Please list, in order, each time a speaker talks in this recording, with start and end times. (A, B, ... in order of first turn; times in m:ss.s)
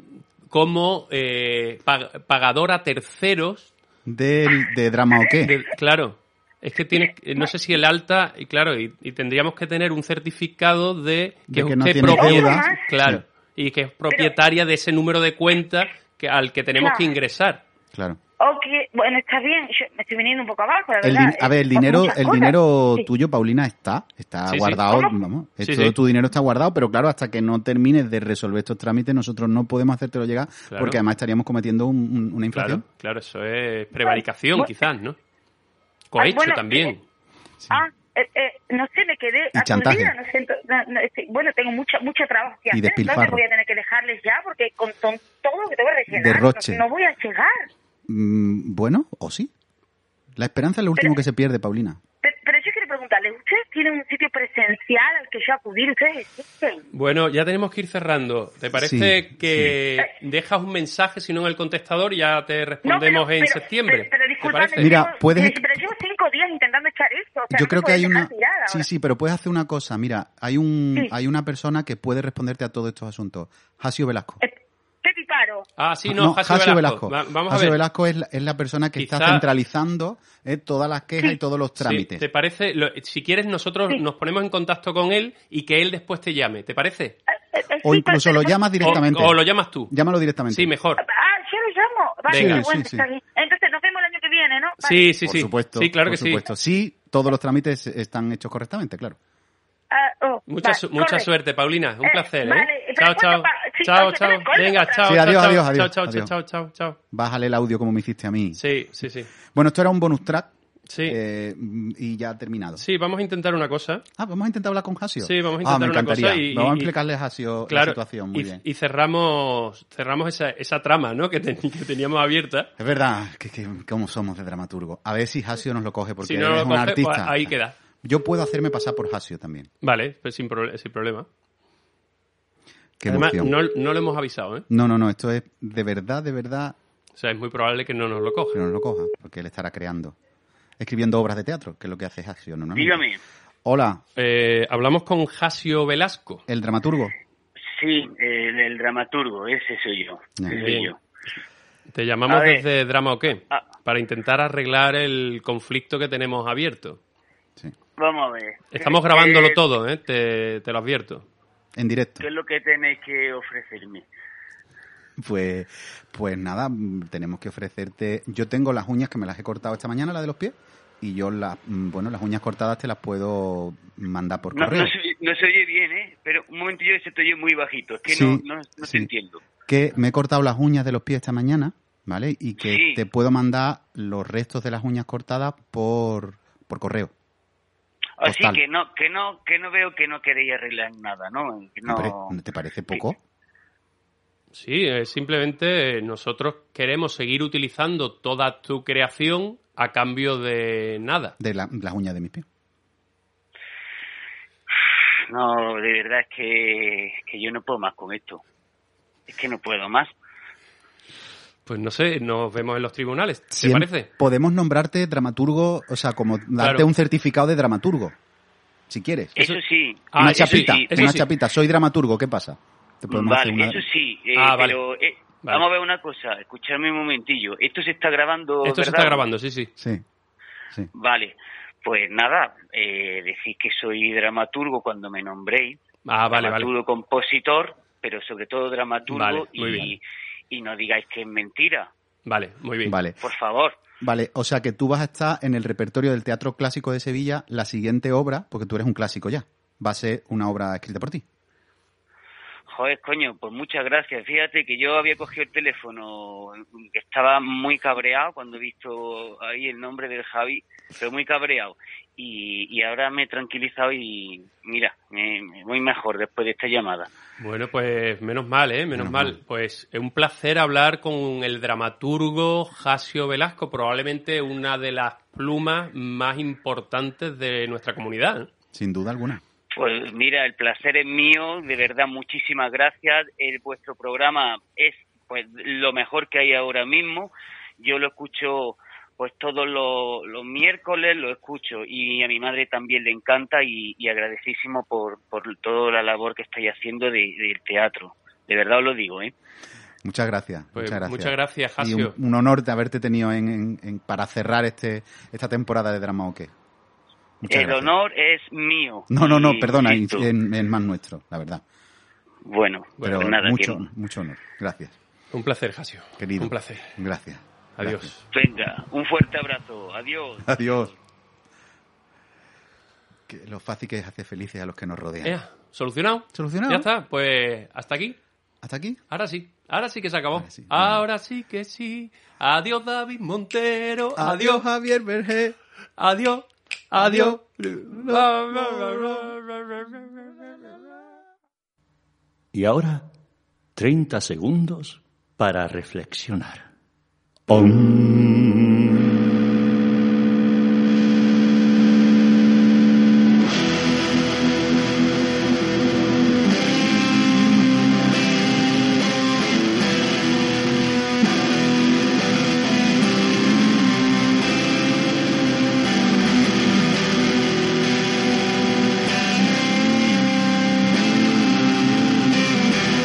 0:00.5-0:03.7 A
0:04.1-0:05.5 B
0:05.4-0:17.6 A
0:11.5-0:13.2 B
0:12.1-0:12.8 C
0:16.8-0:17.1 C
0:17.9-0:18.2 B
0:18.4-0:23.1 C
0:21.0-0:32.8 B
0:24.5-0:24.8 A
0:24.9-0:25.2 C
0:25.6-0:25.9 A
0:30.7-0:31.0 A
0:32.5-0:35.2 A
0:34.0-0:34.7 C
0:36.1-0:37.0 A
0:36.2-0:36.9 C
0:37.7-0:47.7 C
0:39.5-0:40.1 B
0:42.7-0:43.4 B
0:46.1-0:46.8 B
0:48.1-0:49.5 B
0:50.4-0:52.0 B
0:52.2-0:56.8 C
0:56.9-1:05.0 A
0:58.7-0:59.8 B
1:02.8-1:08.8 C
1:04.8-1:05.7 B
1:07.5-1:14.4 B
1:14.4-1:15.7 C
1:15.8-1:17.8 A
1:16.1-1:22.2 B
1:19.0-1:19.4 A
1:21.8-1:27.2 A
1:27.3-1:29.0 C
1:27.8-1:30.7 B
1:28.8-1:29.9 A
1:30.5-1:31.0 A
1:31.0-1:35.1 C
1:32.3-1:32.6 A
1:32.3-1:33.0 B
1:34.8-1:36.4 A
1:35.2-1:39.2 B
1:39.9-1:41.3 C
1:40.5-1:47.0 A
1:42.0-1:45.2 C
1:45.1-1:46.3 B
1:47.1-1:48.6 B
1:48.5-1:49.3 A
1:49.5-1:50.5 B
1:50.9-1:51.2 A
1:51.0-1:52.8 B
1:52.8-1:54.0 A
1:54.2-1:58.6 B
1:55.2-1:56.9 A
1:57.7-2:02.7 A
2:02.8-2:09.7 B
2:06.2-2:07.8 A
2:09.8-2:11.3 A
2:13.0-2:13.5 B
2:13.1-2:14.7 A
2:14.7-2:16.8 B
2:17.2-2:18.6 A
2:18.5-2:20.2 B
2:20.8-2:23.0 B
2:22.7-2:23.2 D
2:23.6-2:24.0 B
2:24.2-2:26.4 A
2:26.5-2:27.1 B
2:27.7-2:31.0 D
2:30.5-2:30.9 A
2:31.9-2:37.0 A
2:32.3-2:32.6 D
2:38.0-2:39.6 D
2:38.7-2:41.2 A
2:41.8-2:42.2 B
2:42.2-2:44.1 D
2:45.2-2:54.9 B
2:54.5-2:59.4 D
2:58.1-2:59.1 B
2:59.7-3:07.1 B
3:02.6-3:03.0 D
3:08.2-3:12.3 D
3:08.2-3:08.6 B
3:11.8-3:13.2 B
3:14.5-3:21.3 A
3:21.4-3:22.4 B
3:25.3-3:28.4 D
3:29.3-3:30.1 D
3:31.7-3:34.1 A
3:33.5-3:38.2 B
3:36.6-3:36.8 A
3:38.9-3:39.3 B
3:39.3-3:41.2 D
3:40.1-3:41.3 A
3:40.2-3:43.8 B
3:43.1-3:49.3 D
3:44.4-3:44.8 A
3:48.6-3:49.7 A
3:49.8-3:50.0 B
3:50.9-3:55.8 D
3:56.0-3:56.7 A
3:56.3-4:01.9 D
3:59.1-3:59.9 A
4:02.2-4:03.0 A
4:02.8-4:03.2 B
4:03.2-4:03.8 D
4:04.0-4:11.2 B
4:12.7-4:27.1 D
4:27.4-4:38.5 A
4:28.9-4:29.4 B
4:38.7-4:39.4 B
4:39.7-4:59.3 D
5:00.0-5:06.5 B
5:00.8-5:02.1 A
5:07.4-5:07.9 B
5:07.5-5:10.3 D
5:09.1-5:11.6 B
5:12.4-5:13.9 D
5:13.0-5:14.9 B
5:15.3-5:16.9 A
5:16.2-5:18.1 B
5:17.8-5:18.2 A
5:18.3-5:20.9 D
5:20.4-5:20.9 B
5:23.3-5:25.4 B
5:25.2-5:28.2 A
5:26.3-5:26.9 B
5:28.6-5:29.0 B
5:29.1-5:34.6 A
5:30.3-5:31.0 B
5:34.2-5:35.6 B
5:36.0-5:40.2 A
5:37.0-5:39.3 B
5:42.5-5:43.1 E
5:43.8-5:46.7 E
5:47.5-5:49.0 E